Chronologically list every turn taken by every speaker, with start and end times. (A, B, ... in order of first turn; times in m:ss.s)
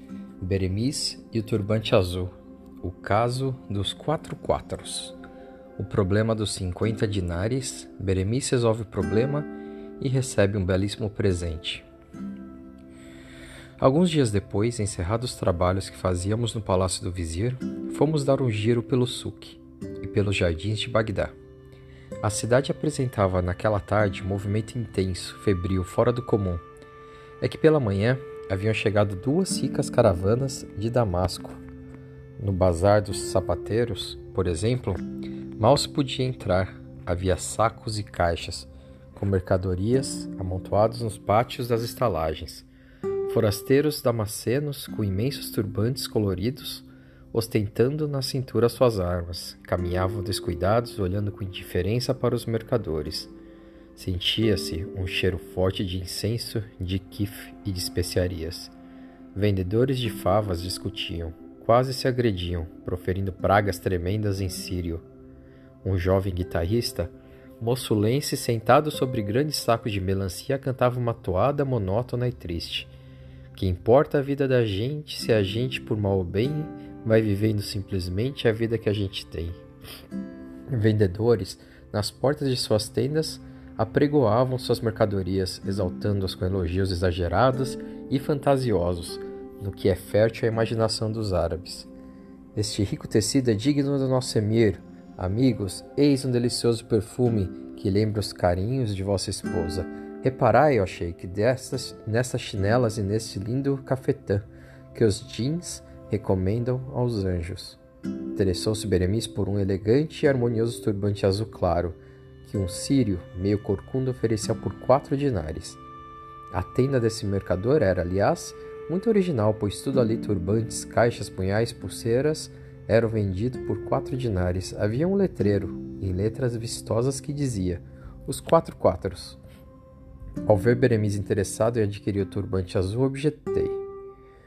0:00.4-0:02.3 A
0:02.8-0:05.2 A
0:05.8-0:11.9 A
0:13.8-0:21.4 A
0:22.2-0:26.6 A
0:27.4-0:31.6 A
0:32.4-0:35.0 A
0:35.6-0:42.7 A
0:43.3-0:53.3 A
0:54.0-0:58.7 A
0:59.3-1:05.0 A
1:05.8-1:12.9 A
1:13.5-1:19.6 A
1:20.7-1:31.9 A
1:32.6-1:47.8 A
1:48.4-1:55.8 A
1:56.5-2:09.4 A
2:10.5-2:13.8 A